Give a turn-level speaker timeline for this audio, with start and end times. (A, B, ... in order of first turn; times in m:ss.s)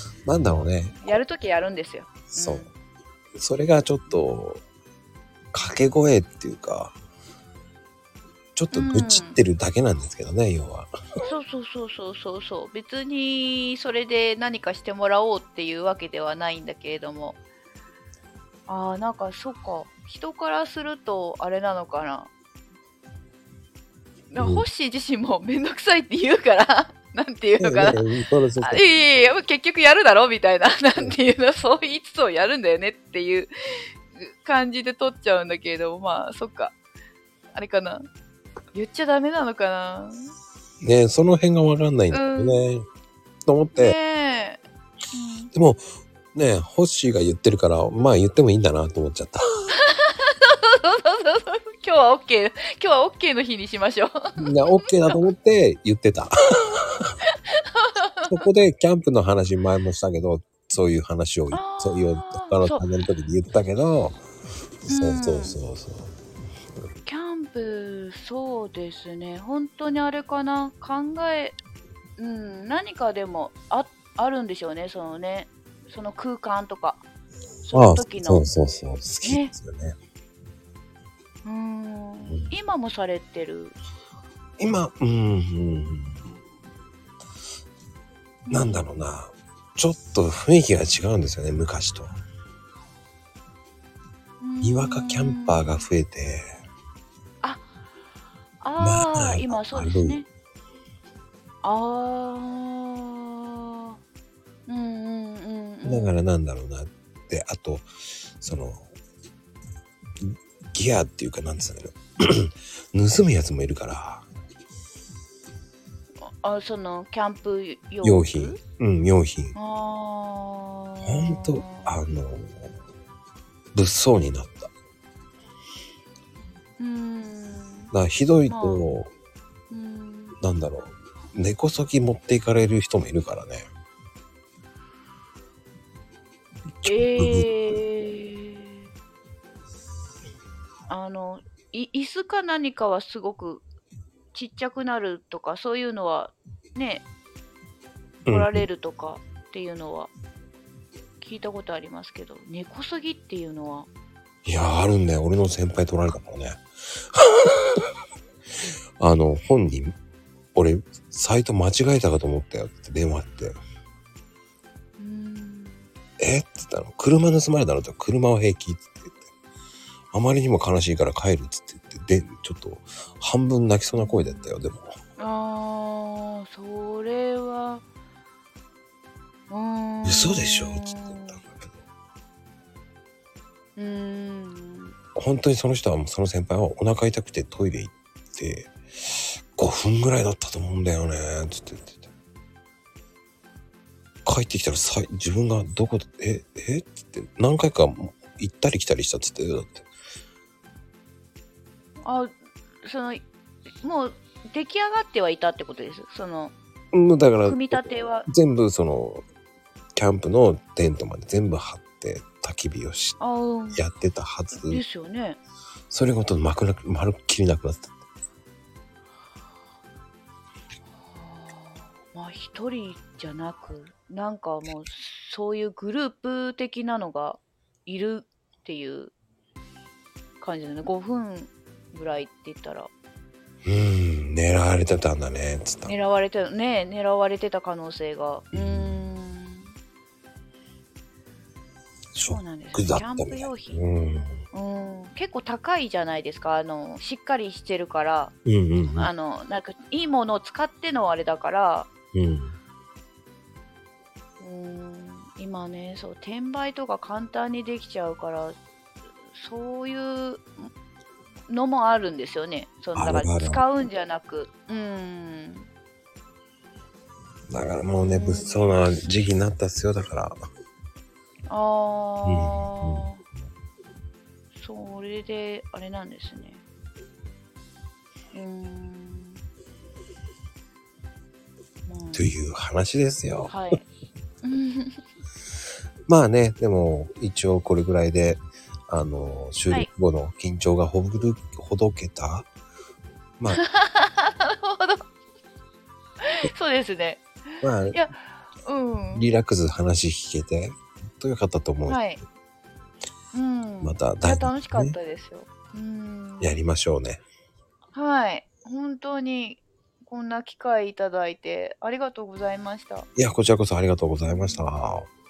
0:00.3-0:01.2 A
0:01.0-0:02.7 B
0:02.3-0:02.7 A
0:03.4-0:04.6 A
0:05.5-0:07.0 A
0:08.6-0:10.9 A
0:08.7-0:09.4 B
0:11.2-0:17.4 B
0:18.7-0:22.3 B
0:24.3-0:28.0 B
0:24.4-0:24.6 A
0:27.6-0:28.8 A
0:28.6-0:33.5 B
0:34.2-0:36.8 B
0:37.5-0:38.0 B
0:38.7-0:40.3 B
0:40.8-0:42.9 A
0:42.1-0:42.6 B
0:43.5-0:44.0 A
0:43.8-0:44.6 B
0:45.1-0:45.5 B
0:45.5-0:45.8 A
0:46.3-0:49.4 A
0:49.8-0:55.2 B
0:54.4-0:57.1 A
0:57.5-0:58.3 B
0:58.3-1:04.2 A
1:01.5-1:02.8 B
1:04.8-1:06.1 A
1:04.9-1:05.6 B
1:07.1-1:11.6 B
1:12.2-1:17.0 B
1:17.6-1:18.5 B
1:17.7-1:20.0 A
1:19.2-1:19.5 B
1:21.4-1:23.8 B
1:24.6-1:26.3 A
1:28.5-1:28.8 B
1:28.5-1:32.1 A
1:34.4-1:35.8 B
1:34.6-1:36.6 A
1:37.4-1:37.7 B
1:38.6-1:40.3 B
1:38.8-1:40.2 A
1:41.6-1:44.0 B
1:44.7-1:46.2 B
1:45.8-1:47.9 A
1:48.4-1:48.9 A
1:50.2-1:54.3 A
1:56.4-1:58.6 B
1:58.0-1:59.6 A
1:59.6-2:02.0 B
2:01.0-2:02.7 A
2:03.7-2:04.7 A
2:06.8-2:07.9 B
2:07.9-2:09.1 A
2:08.5-2:08.8 B
2:09.7-2:10.4 B
2:10.4-2:13.7 A
2:16.8-2:17.5 A
2:16.8-2:18.9 B
2:20.9-2:23.6 B
2:24.3-2:27.0 B
2:28.3-2:28.7 A
2:28.3-2:30.1 B
2:31.2-2:33.9 B
2:34.4-2:37.9 A
2:39.0-2:40.0 A
2:40.6-2:43.6 A
2:45.0-2:45.9 B
2:46.2-2:49.2 A
2:50.1-2:54.9 A
2:54.0-2:54.5 B
2:55.2-2:57.8 B
2:59.5-3:01.4 B
3:00.0-3:01.5 A
3:03.8-3:05.0 B
3:05.2-3:12.0 A
3:14.3-3:19.9 A
3:22.0-3:22.3 B
3:22.8-3:23.3 B
3:23.8-3:26.6 B
3:26.9-3:29.2 A
3:27.4-3:28.3 B
3:30.0-3:33.2 A
3:33.2-3:33.8 B
3:33.8-3:34.8 A
3:34.6-3:35.4 B
3:35.9-3:38.0 A
3:41.0-3:49.1 B
3:50.4-3:52.9 B
3:53.6-3:56.0 A
3:55.9-3:59.7 B
3:58.5-3:59.0 A
4:02.1-4:04.4 A
4:02.3-4:03.8 B
4:04.5-4:08.3 B
4:08.4-4:09.1 A
4:08.9-4:11.9 B
4:12.1-4:12.6 A
4:14.4-4:18.6 B
4:19.3-4:20.7 B
4:21.5-4:25.7 B
4:23.0-4:23.6 A
4:27.5-4:30.4 A
4:28.0-4:28.6 B
4:31.5-4:33.2 B
4:32.2-4:33.1 A
4:34.5-4:36.6 B
4:38.3-4:39.4 B
4:41.9-4:42.3 B
4:42.1-4:43.6 A
4:43.5-4:43.8 B
4:44.4-4:45.0 B
4:46.1-4:52.5 A
4:53.5-4:55.1 B
4:56.4-4:57.3 B
4:57.6-4:58.0 A
4:57.9-4:59.3 B
4:59.1-5:02.1 A
5:01.9-5:02.2 B
5:03.3-5:06.5 B
5:03.8-5:05.0 A
5:06.4-5:07.2 A
5:07.9-5:13.1 B
5:13.2-5:15.1 A
5:14.3-5:14.7 B